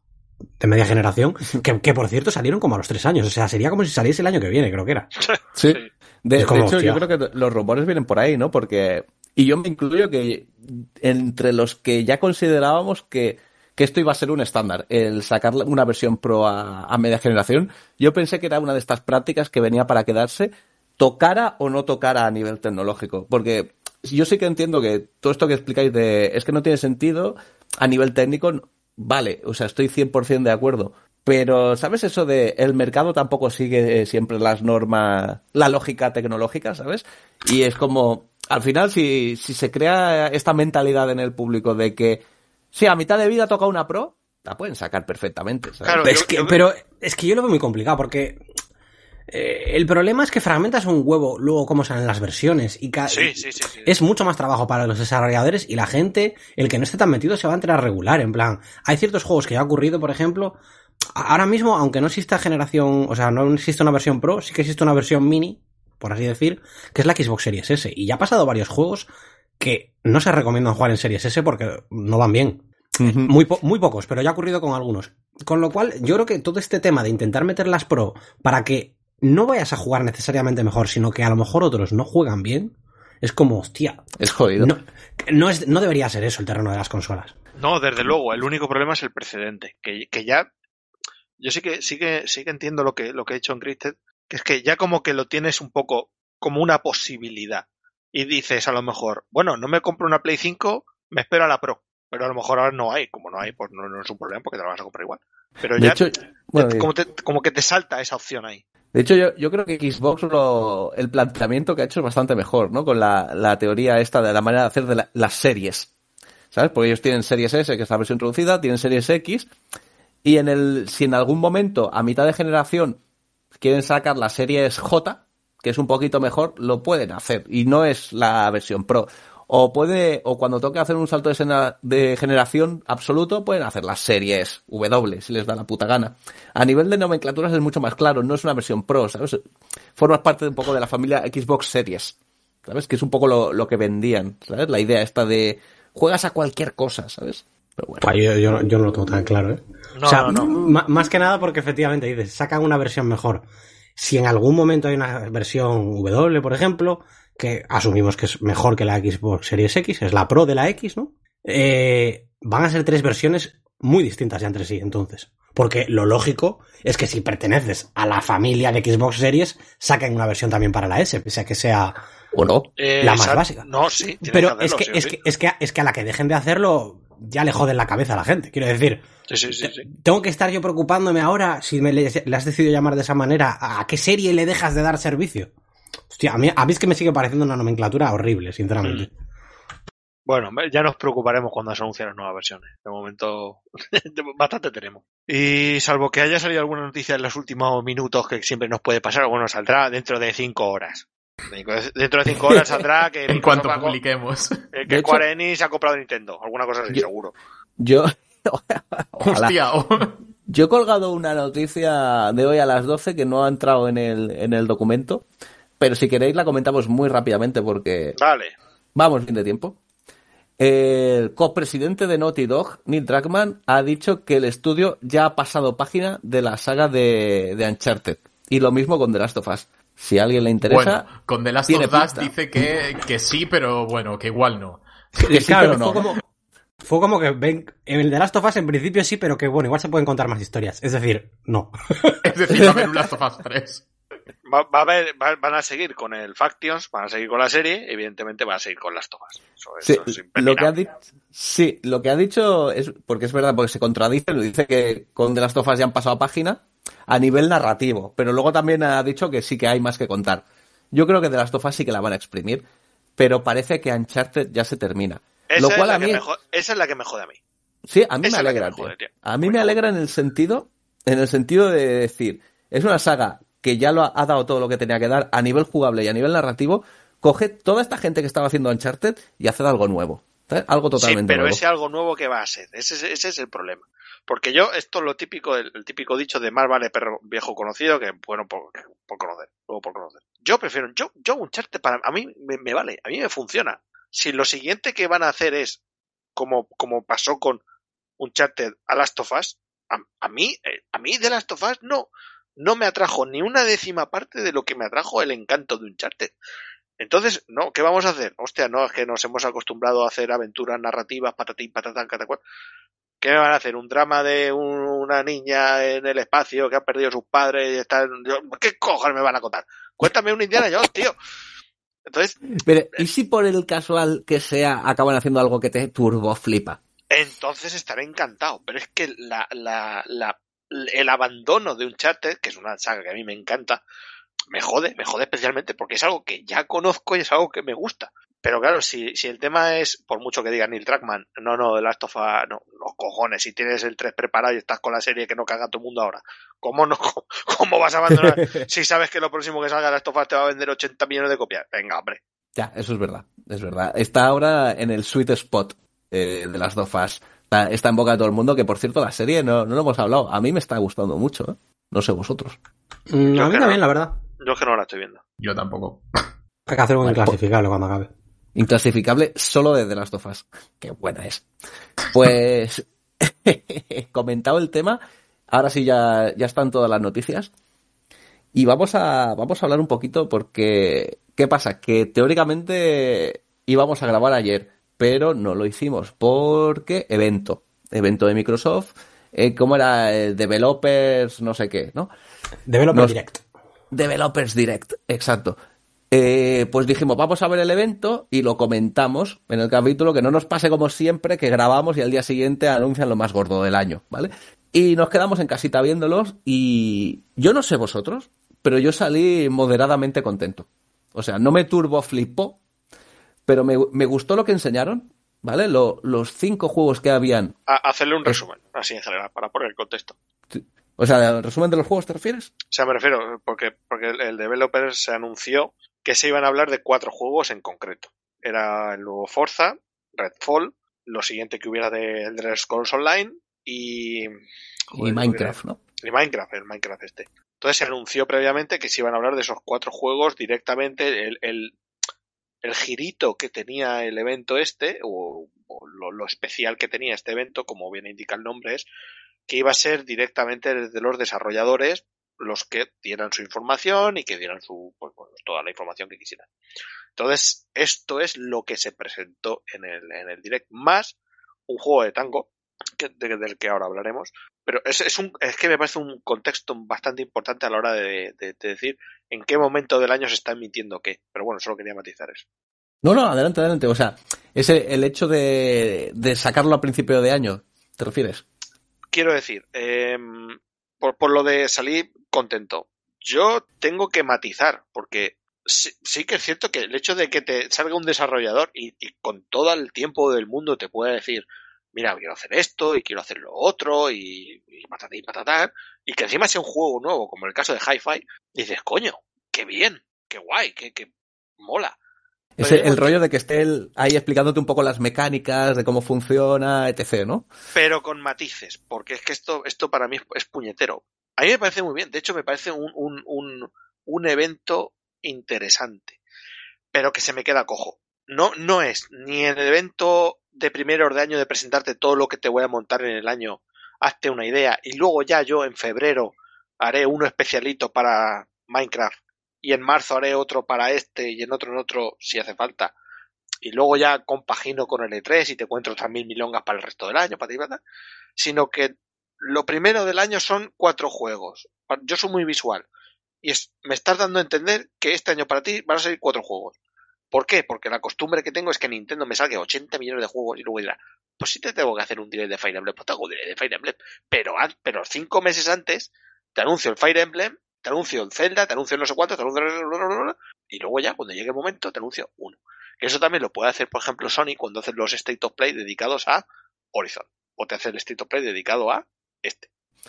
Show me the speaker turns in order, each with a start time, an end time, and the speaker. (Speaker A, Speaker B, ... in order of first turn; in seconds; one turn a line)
Speaker A: 0.6-5.1
Speaker B: 5.2-5.9
Speaker C: 5.5-46.1
Speaker A: 6.4-7.0
Speaker B: 45.8-46.6
Speaker A: 46.0-48.4
Speaker A: 49.3-60.6
Speaker B: 53.1-53.9
Speaker A: 61.1-69.1
Speaker A: 69.6-87.3
Speaker C: 73.0-73.3
Speaker C: 84.2-84.7
Speaker B: 87.6-90.5
Speaker B: 91.4-106.0
Speaker C: 105.8-106.9
Speaker B: 106.5-108.6
Speaker C: 108.9-115.9
Speaker C: 116.5-119.5
Speaker C: 120.2-123.0
Speaker C: 123.6-139.4
Speaker C: 139.9-148.1
Speaker A: 148.0-153.4
Speaker B: 149.9-150.5
Speaker A: 153.9-171.9
Speaker C: 172.3-172.7
Speaker B: 172.8-175.2
Speaker A: 173.0-173.6
Speaker A: 174.2-185.5
Speaker B: 179.3-179.8
Speaker A: 186.1-189.1
Speaker B: 190.2-204.0
Speaker D: 203.3-204.6
Speaker B: 204.7-207.3
Speaker C: 204.9-205.2
Speaker C: 207.8-209.5
Speaker D: 209.2-210.2
Speaker C: 210.5-215.2
Speaker C: 215.8-218.2
Speaker B: 218.2-218.5
Speaker C: 218.9-219.8
Speaker C: 220.6-231.1
Speaker D: 230.6-234.8
Speaker C: 231.7-232.3
Speaker A: 235.2-236.2
Speaker C: 235.2-236.2
Speaker A: 236.8-242.7
Speaker D: 242.2-243.8
Speaker B: 244.4-250.8
Speaker C: 249.8-262.6
Speaker C: 263.2-266.2
Speaker B: 265.5-267.4
Speaker C: 267.9-281.6
Speaker B: 268.2-269.8
Speaker B: 281.0-295.8
Speaker B: 296.3-297.6
Speaker B: 298.2-306.3
Speaker B: 307.0-312.4
Speaker B: 313.2-321.1
Speaker B: 322.1-322.4
Speaker C: 322.5-326.8
Speaker B: 327.1-333.8
Speaker B: 334.5-352.2
Speaker C: 352.6-362.6
Speaker A: 363.1-364.1
Speaker B: 363.3-363.8
Speaker B: 364.4-365.2
Speaker D: 365.4-366.0
Speaker A: 366.7-368.1
Speaker C: 367.0-367.4
Speaker C: 368.5-371.4
Speaker C: 372.1-375.0
Speaker C: 375.5-377.5
Speaker C: 378.5-392.1
Speaker A: 392.7-393.4
Speaker C: 393.9-395.6
Speaker C: 396.1-412.6
Speaker C: 413.5-417.5
Speaker B: 417.7-420.1
Speaker C: 420.5-422.5
Speaker B: 422.7-434.3
Speaker B: 434.9-441.7
Speaker C: 434.9-435.8
Speaker B: 442.6-448.9
Speaker B: 449.5-456.5
Speaker B: 457.1-461.1
Speaker B: 461.7-472.4
Speaker C: 473.0-478.4
Speaker B: 479.1-501.1
Speaker B: 501.6-501.9
Speaker C: 502.6-507.5
Speaker B: 502.6-503.0
Speaker B: 507.7-516.2
Speaker B: 516.9-532.9
Speaker B: 533.6-537.8
Speaker B: 538.4-542.9
Speaker B: 543.4-546.7
Speaker B: 547.3-569.7